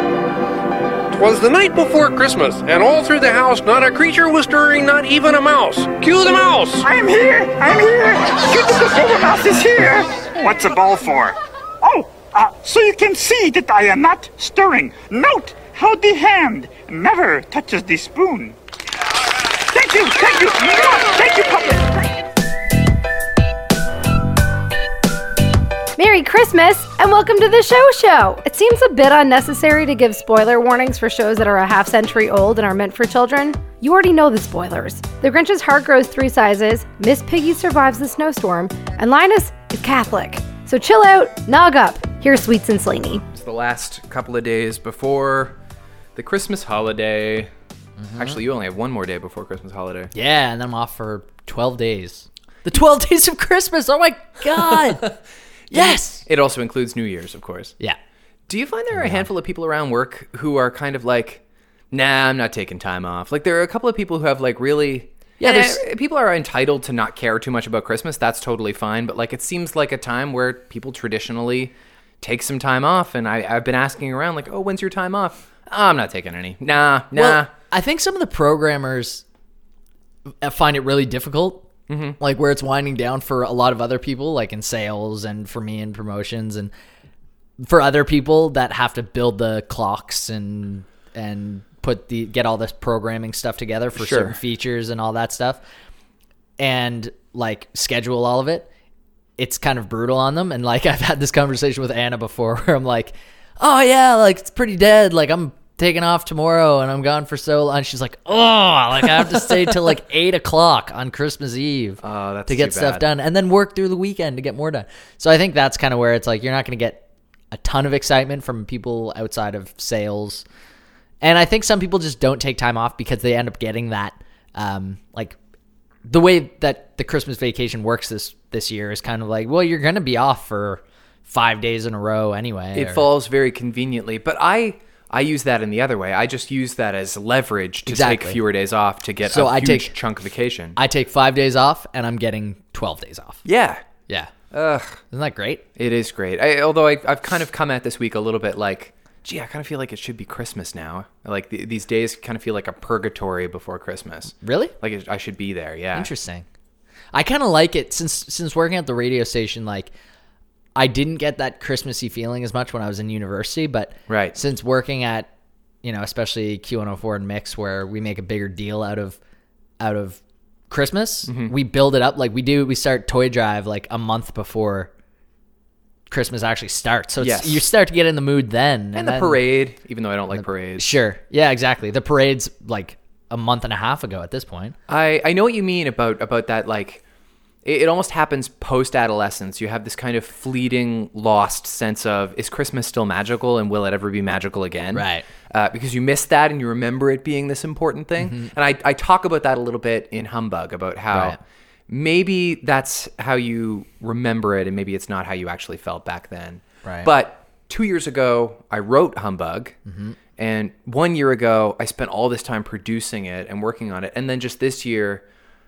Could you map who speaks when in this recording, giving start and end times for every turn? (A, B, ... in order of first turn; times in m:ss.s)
0:01.1-0:06.9 A
0:06.8-0:18.6 B
0:19.7-0:22.0 B
0:26.0-0:43.2 C
0:43.3-0:45.6 D
0:46.1-0:47.5 D
0:48.0-0:48.4 E
0:48.2-0:50.1 D
0:50.1-0:55.2 E
0:54.7-0:55.1 D
0:55.7-0:57.8 D
0:55.7-0:56.2 E
0:58.5-1:17.5 D
0:58.9-0:59.3 E
1:05.4-1:05.8 E
1:17.1-1:19.2 E
1:20.4-1:26.7 E
1:21.9-1:22.2 D
1:27.6-1:35.6 E
1:34.0-1:34.4 D
1:36.6-1:38.7 E
1:39.4-2:00.4 E
1:52.0-1:53.1 D
2:01.2-2:05.4 E
2:06.1-2:13.1 E
2:12.7-2:20.8 D
2:17.8-2:18.4 E
2:19.3-2:19.9 E
2:20.8-2:23.4 E
2:23.4-2:23.8 D
2:24.5-2:25.0 D
2:25.1-2:25.6 E
2:25.8-2:36.1 D
2:34.4-2:34.7 E
2:35.9-2:36.4 E
2:37.1-2:39.9 E
2:40.8-2:45.3 E
2:44.1-2:44.4 D
2:45.8-2:49.2 E
2:49.8-2:54.9 E
2:51.3-2:51.5 D
2:56.1-2:59.4 E
2:57.2-2:57.6 D
2:58.9-3:00.9 D
3:00.3-3:04.8 E
3:04.9-3:07.0 D
3:07.6-3:21.4 D
3:14.9-3:15.2 E
3:18.2-3:18.5 E
3:21.1-3:21.4 E
3:21.9-3:29.8 D
3:26.8-3:27.1 E
3:29.8-3:30.2 E
3:30.4-3:35.2 D